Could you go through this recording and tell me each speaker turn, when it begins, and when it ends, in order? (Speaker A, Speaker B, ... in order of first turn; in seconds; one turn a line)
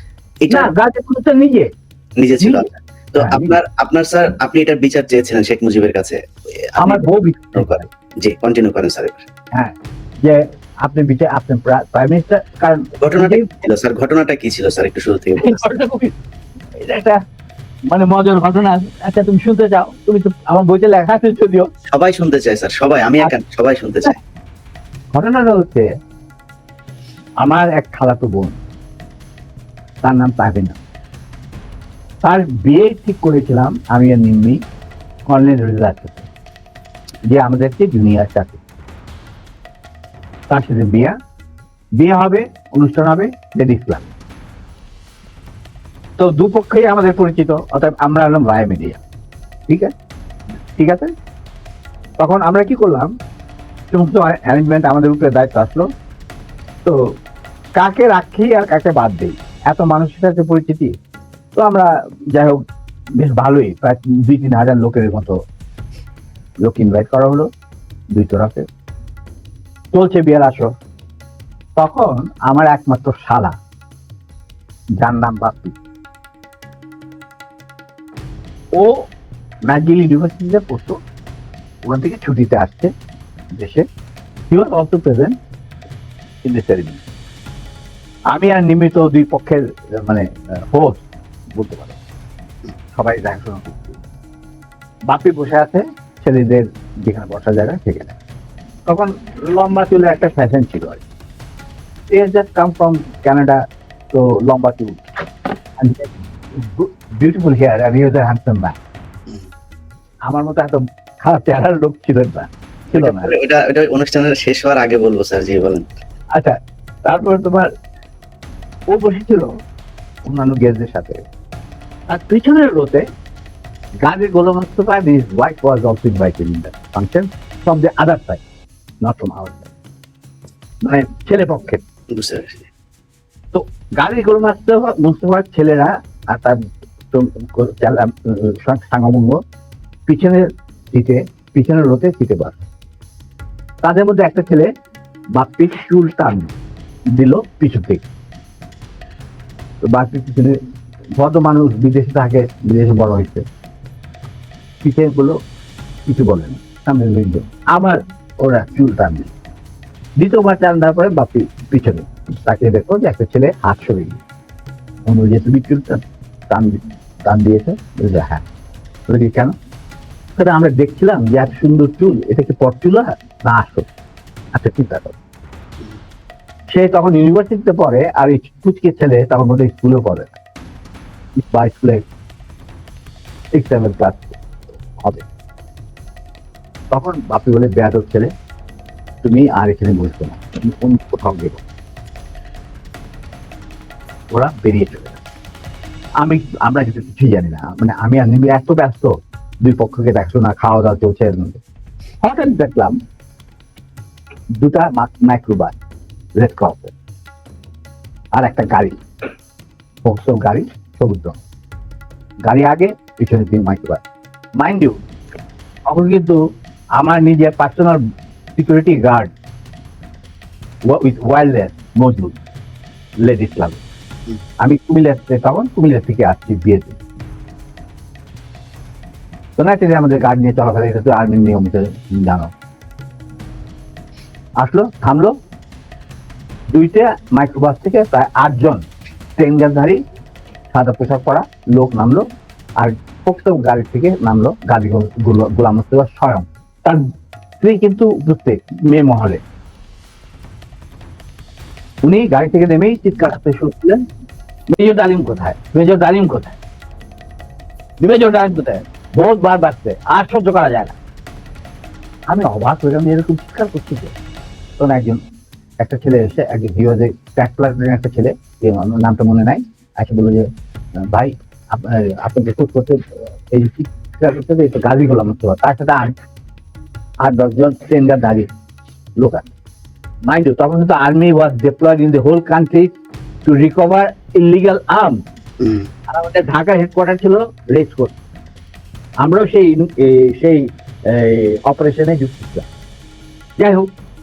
Speaker A: 0.4-0.7
Speaker B: 0.5-1.7
Speaker A: 2.2-6.2
Speaker B: 2.4-3.6
Speaker A: 6.7-7.0
Speaker B: 6.8-7.9
Speaker A: 7.6-9.2
Speaker B: 9.5-13.6
Speaker A: 13.0-15.6
Speaker B: 15.4-16.1
Speaker B: 16.8-17.2
Speaker B: 17.9-21.7
Speaker A: 21.9-24.2
Speaker B: 25.1-25.9
Speaker B: 27.4-28.6
Speaker B: 30.0-30.8
Speaker B: 32.2-34.6
Speaker B: 35.3-36.3
Speaker B: 37.3-38.6
Speaker B: 40.5-41.1
Speaker B: 42.0-44.1
Speaker B: 46.2-49.0
Speaker B: 49.7-49.9
Speaker B: 50.8-51.1
Speaker B: 52.2-53.1
Speaker B: 53.9-55.9
Speaker B: 57.8-60.9
Speaker B: 61.5-62.6
Speaker B: 63.2-65.4
Speaker B: 66.6-67.5
Speaker B: 68.1-68.7
Speaker B: 69.9-70.7
Speaker B: 71.8-73.5
Speaker B: 75.0-75.8
Speaker B: 79.7-81.0
Speaker B: 81.8-82.9
Speaker B: 83.5-83.8
Speaker B: 84.5-85.3
Speaker B: 86.4-87.0
Speaker B: 88.3-92.0
Speaker B: 92.9-94.0
Speaker B: 95.1-98.2
Speaker B: 98.9-101.0
Speaker B: 102.1-103.6
Speaker B: 104.1-105.0
Speaker B: 105.8-108.8
Speaker B: 110.2-113.4
Speaker A: 112.9-115.9
Speaker B: 116.3-117.7
Speaker B: 118.9-119.5
Speaker B: 120.2-121.2
Speaker B: 122.1-123.0
Speaker B: 124.0-128.4
Speaker B: 129.0-129.7
Speaker B: 130.8-131.8
Speaker A: 132.1-132.7
Speaker B: 133.5-139.4
Speaker B: 140.1-142.7
Speaker B: 143.8-144.7
Speaker B: 145.3-146.5
Speaker B: 147.1-148.0
Speaker B: 149.8-150.6
Speaker B: 151.2-153.4
Speaker B: 154.8-155.4
Speaker B: 156.1-159.3
Speaker B: 160.2-164.2
Speaker B: 165.1-168.4
Speaker B: 169.1-169.5
Speaker B: 170.3-173.9
Speaker B: 174.5-175.2
Speaker B: 176.7-180.3
Speaker B: 181.4-182.1
Speaker B: 183.5-184.4
Speaker B: 185.0-185.2
Speaker B: 186.9-188.3
Speaker B: 189.2-191.6
Speaker B: 194.3-195.2
Speaker B: 196.2-201.6
Speaker B: 202.2-203.0
Speaker B: 204.5-205.8
Speaker B: 206.3-206.9
Speaker B: 208.3-208.9
Speaker B: 210.0-211.4
Speaker B: 212.4-214.0
Speaker B: 214.6-215.0
Speaker B: 215.8-216.4
Speaker B: 216.9-218.0
Speaker B: 218.5-219.3
Speaker B: 220.8-222.4
Speaker B: 223.2-223.8
Speaker B: 224.6-227.0
Speaker B: 229.6-232.5
Speaker B: 234.6-235.3
Speaker B: 236.7-238.8
Speaker B: 239.4-240.0
Speaker B: 240.7-242.2
Speaker B: 242.8-247.0
Speaker B: 247.6-249.4
Speaker B: 252.0-254.0
Speaker B: 254.7-256.6
Speaker B: 258.0-261.0
Speaker B: 262.3-264.1
Speaker B: 264.8-265.2
Speaker B: 265.8-270.5
Speaker B: 271.0-276.2
Speaker B: 277.2-278.5
Speaker B: 279.2-279.5
Speaker B: 280.2-282.9
Speaker B: 283.4-285.2
Speaker A: 285.6-285.9
Speaker B: 286.1-288.1
Speaker B: 289.2-292.7
Speaker B: 293.6-293.9